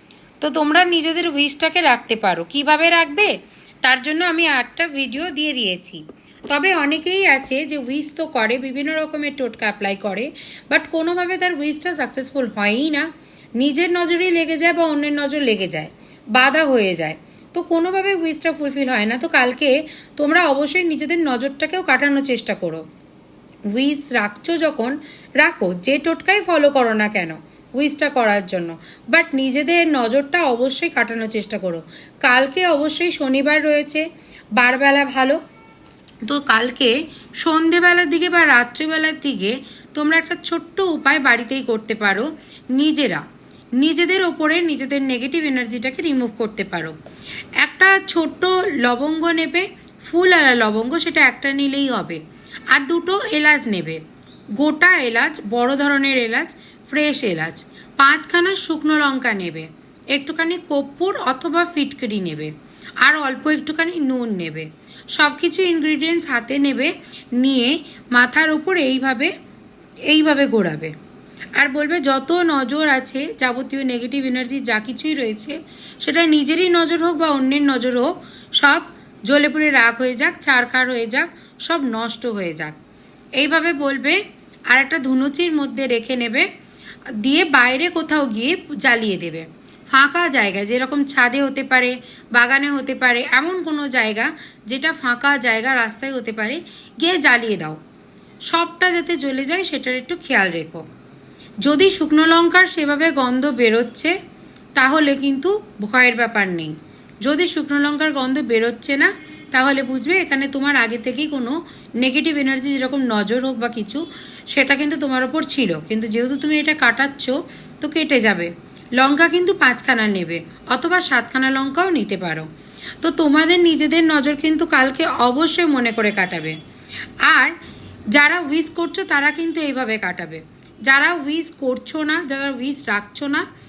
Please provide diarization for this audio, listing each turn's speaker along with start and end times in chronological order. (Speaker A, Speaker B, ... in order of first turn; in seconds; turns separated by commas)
Speaker A: 0.4-3.3, Speaker A: 3.8-22.8, Speaker A: 23.7-34.0, Speaker A: 34.5-35.4, Speaker A: 36.2-43.2, Speaker A: 43.8-46.9, Speaker A: 47.6-54.0, Speaker A: 54.6-69.3, Speaker A: 70.1-70.9, Speaker A: 71.6-82.8, Speaker A: 83.4-86.5, Speaker A: 87.2-97.8, Speaker A: 98.5-100.8, Speaker A: 101.6-104.1, Speaker A: 104.8-122.5, Speaker A: 123.0-126.5, Speaker A: 127.2-127.5, Speaker A: 128.1-133.4